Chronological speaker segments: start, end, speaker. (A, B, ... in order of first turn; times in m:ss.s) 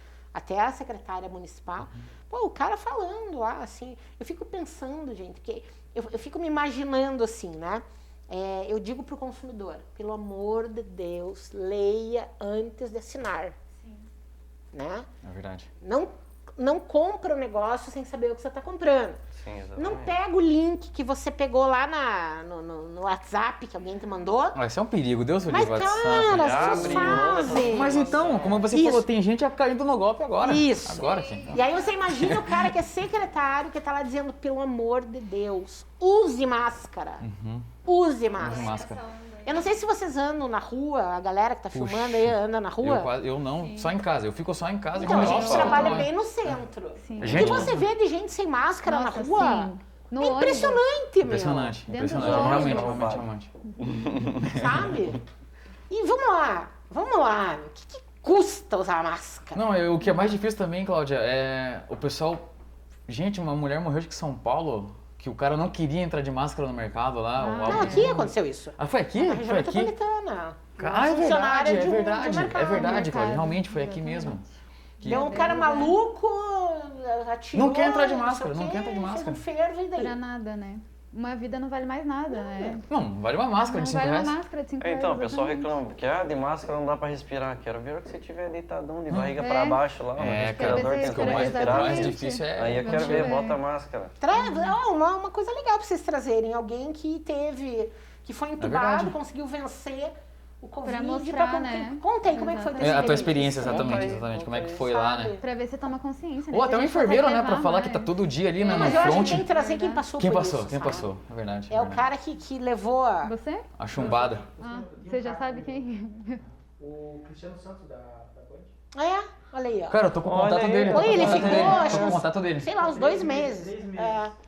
0:00.3-0:13.6 A
0:14.7-0:15.1 A
0:15.2-0:15.7 B
0:15.8-0:19.2 A
0:19.4-0:20.2 C
0:19.8-0:24.6 A
0:24.5-0:32.8 B
0:25.5-0:29.1 A
0:26.1-0:28.7 C
0:30.3-0:37.3 A
0:31.0-0:31.6 D
0:37.2-0:37.7 B
0:37.8-0:38.8 A
0:38.4-0:39.0 B
0:38.4-0:39.8 D
0:39.5-0:43.1 A
0:41.7-0:46.1 B
0:43.6-0:44.0 D
0:45.0-0:46.1 D
0:45.0-0:51.8 A
0:45.1-0:46.0 C
0:47.0-0:47.6 D
0:47.2-0:47.9 B
0:48.9-0:50.8 D
0:51.2-0:53.5 B
0:51.9-0:53.0 D
0:52.1-0:53.3 C
0:53.7-0:54.1 D
0:53.8-0:54.5 C
0:54.4-0:55.2 B
0:54.4-0:55.2 A
0:55.9-0:59.6 A
0:59.5-1:02.5 B
1:03.1-1:09.9 B
1:07.4-1:08.1 D
1:07.7-1:13.4 A
1:10.8-1:14.4 B
1:12.4-1:16.0 D
1:15.0-1:15.6 B
1:15.0-1:20.2 A
1:17.5-1:19.4 B
1:20.0-1:22.8 D
1:22.3-1:22.8 A
1:22.9-1:24.4 B
1:23.6-1:25.7 D
1:24.8-1:34.2 C
1:29.1-1:29.4 B
1:29.4-1:33.6 D
1:30.2-1:33.4 B
1:34.2-1:45.4 A
1:34.4-1:34.8 D
1:38.6-1:39.2 B
1:40.8-1:43.6 D
1:42.8-1:45.4 B
1:43.6-1:44.9 C
1:45.4-1:50.1 D
1:46.5-1:49.5 B
1:48.6-1:51.1 A
1:50.2-1:52.1 B
1:51.7-1:53.3 A
1:53.2-1:53.7 D
1:53.8-1:54.5 B
1:53.9-1:58.8 E
1:54.6-1:56.4 D
1:59.0-2:00.1 A
1:59.9-2:02.7 B
2:00.2-2:02.1 C
2:00.9-2:04.3 A
2:01.9-2:04.3 E